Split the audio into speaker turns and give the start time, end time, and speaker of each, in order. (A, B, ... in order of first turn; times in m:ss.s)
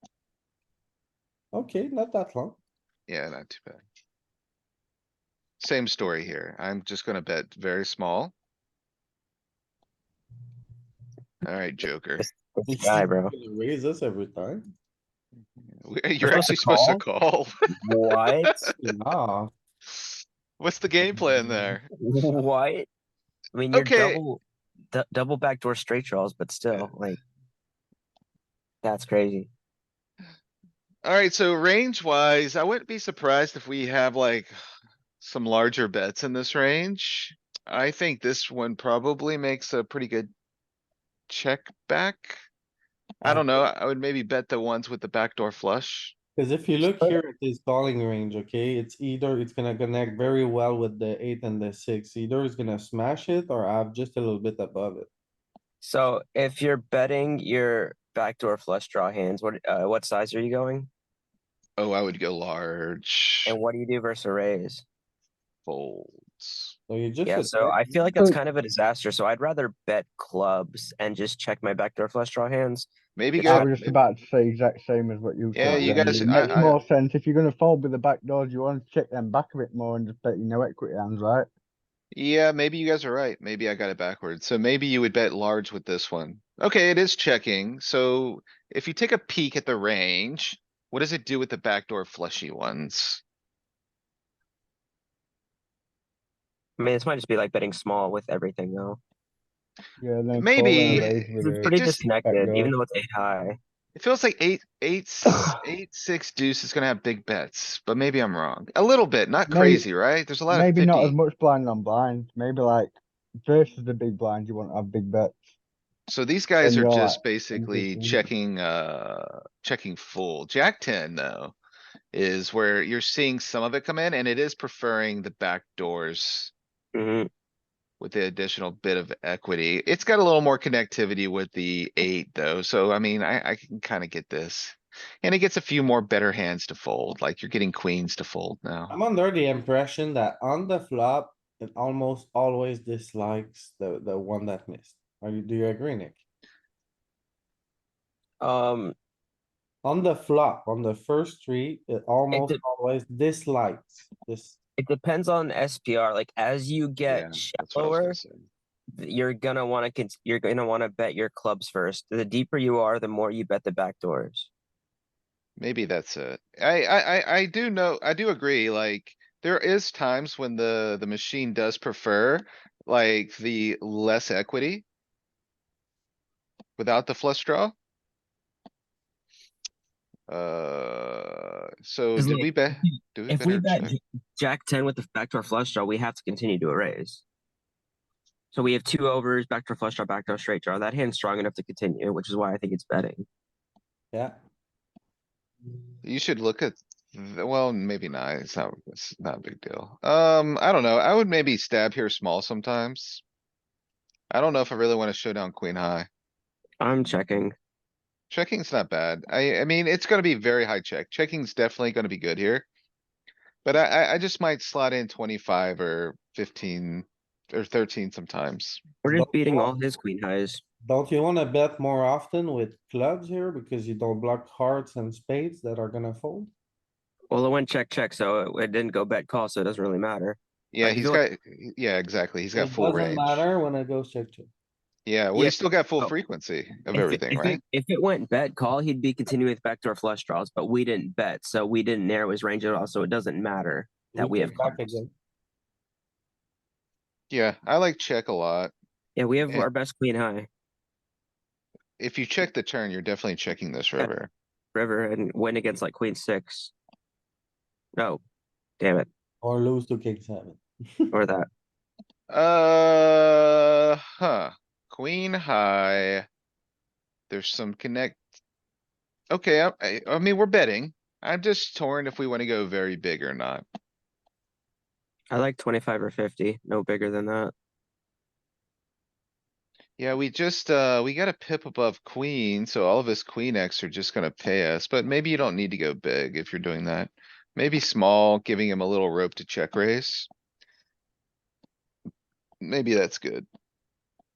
0:01.5-0:02.6 A
0:03.1-0:03.8 B
0:05.6-0:08.3 B
0:11.4-0:12.2 B
0:12.2-0:13.3 C
0:12.7-0:14.6 A
0:15.6-0:17.5 B
0:16.2-0:17.0 C
0:17.7-0:18.7 C
0:18.8-0:19.5 A
0:20.6-0:21.9 B
0:22.0-0:22.9 C
0:23.5-0:27.2 C
0:23.7-0:24.2 B
0:28.8-0:29.5 C
0:31.0-0:34.5 B
0:35.2-0:40.3 B
0:41.3-0:42.4 B
0:43.2-0:46.1 B
0:46.4-0:55.1 A
0:46.8-0:47.2 C
0:55.8-1:00.9 C
1:01.8-1:03.6 B
1:03.4-1:04.8 C
1:05.6-1:06.8 B
1:06.9-1:07.8 A
1:07.2-1:13.7 C
1:13.2-1:14.0 B
1:13.4-1:21.5 D
1:15.5-1:16.8 B
1:22.1-1:33.2 B
1:36.8-1:39.0 C
1:40.0-1:42.7 D
1:40.3-1:42.1 B
1:40.9-1:43.6 C
1:43.9-1:51.1 B
1:49.5-1:49.9 D
1:50.5-1:55.4 D
1:56.1-2:01.5 B
1:56.6-1:58.2 D
2:02.1-2:06.5 B
2:06.9-2:07.3 C
2:08.0-2:18.9 B
2:18.9-2:26.2 A
2:28.4-2:29.0 C
2:29.8-2:34.6 A
2:32.3-2:32.6 C
2:34.8-2:38.2 C
2:37.0-2:38.4 B
2:38.9-2:44.5 C
2:45.6-2:54.8 B
2:56.8-2:57.7 B
3:00.3-3:04.0 B
3:02.2-3:07.2 C
3:08.5-3:13.2 C
3:16.0-3:23.2 B
3:24.3-3:26.1 B
3:26.8-3:27.5 C
3:28.3-3:32.6 B
3:33.6-3:38.9 B
3:39.0-3:40.6 C
3:39.1-3:39.8 A
3:40.8-3:46.5 A
3:47.3-3:51.2 C
3:50.7-3:53.4 B
3:52.5-3:54.5 A
3:55.0-3:57.6 B
3:55.3-3:56.1 C
3:56.9-4:05.0 C
4:04.1-4:05.1 A
4:07.3-4:08.7 B
4:09.2-4:10.5 C
4:12.0-4:14.3 B
4:14.7-4:16.7 C
4:18.0-4:18.2 C
4:18.8-4:19.1 C
4:19.4-4:21.1 A
4:21.1-4:21.5 C
4:22.3-4:26.2 B
4:27.3-4:28.2 B
4:29.3-4:33.6 B
4:35.3-4:37.5 C
4:40.0-4:50.3 B
4:52.6-4:53.5 B